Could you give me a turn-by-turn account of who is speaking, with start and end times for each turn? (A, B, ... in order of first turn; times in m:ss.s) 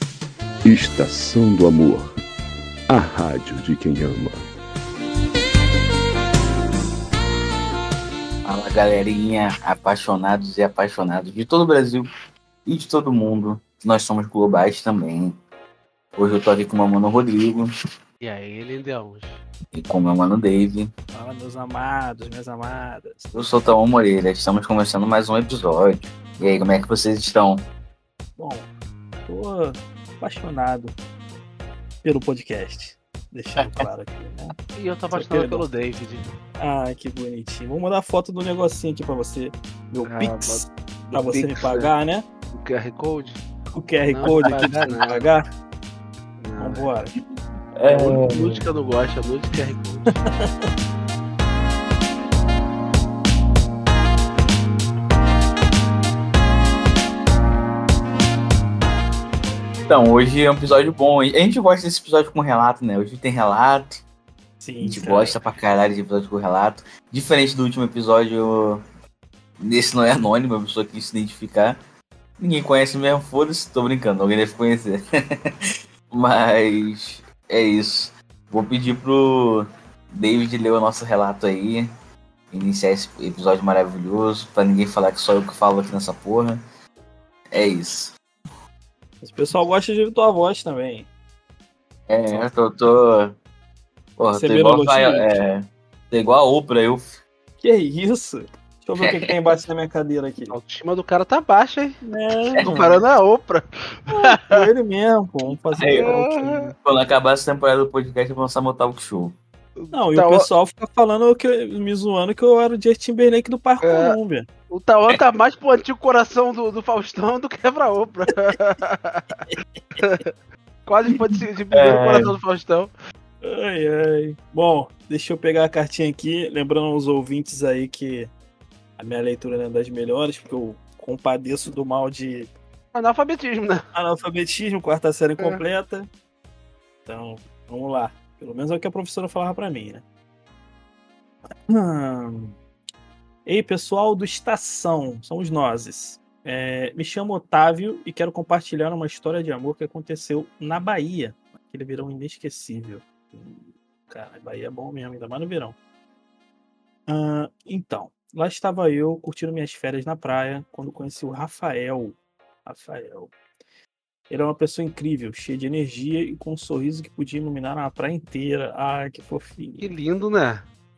0:00.6-0:02.1 A
0:02.9-0:04.4 A
0:08.4-0:12.1 B
0:12.6-0:15.3 B
0:16.2-0:17.7 B
0:18.2-0:19.4 C
0:19.7-0:20.9 B
0:21.1-0:23.2 D
0:23.3-0:27.6 B
0:28.4-0:28.7 D
0:29.2-0:31.0 D
0:32.0-0:34.5 D
0:34.8-0:36.2 C
0:35.1-0:35.6 D
0:36.6-0:42.3 D
0:40.0-0:41.9 C
0:42.5-0:43.4 C
0:43.7-0:45.4 D
0:44.1-0:45.2 C
0:44.4-0:44.9 B
0:46.4-0:46.9 C
0:46.6-0:47.1 D
0:47.8-0:48.6 B
0:47.9-0:50.2 C
0:50.2-0:50.7 D
0:59.9-1:04.0 B
1:04.6-1:05.4 D
1:04.8-1:08.8 B
1:09.6-1:11.8 B
1:12.4-1:15.0 B
1:16.1-1:21.9 B
1:22.5-1:26.6 B
1:27.5-1:28.1 B
1:29.2-1:31.1 D
1:32.1-1:33.4 B
1:34.2-1:37.2 B
1:34.3-1:35.3 D
1:37.6-1:40.6 D
1:39.0-1:39.3 B
1:40.5-1:42.0 C
1:42.0-1:43.0 D
1:42.6-1:44.6 C
1:42.6-1:43.0 B
1:44.1-1:46.8 D
1:45.7-1:46.1 B
1:45.9-1:46.7 C
1:46.8-1:49.4 B
1:49.8-1:50.5 C
1:49.9-1:54.5 D
1:53.8-1:54.2 C
1:54.7-1:59.4 C
1:59.5-2:00.0 D
2:00.0-2:00.3 C
2:00.9-2:02.9 C
2:01.1-2:01.4 D
2:01.7-2:02.3 B
2:03.4-2:08.3 D
2:09.0-2:12.5 D
2:12.9-2:13.8 C
2:13.9-2:16.1 D
2:17.0-2:20.0 D
2:21.7-2:22.6 D
2:23.4-2:35.8 D
2:37.1-2:43.3 D
2:44.3-2:49.9 D
2:49.8-2:50.7 C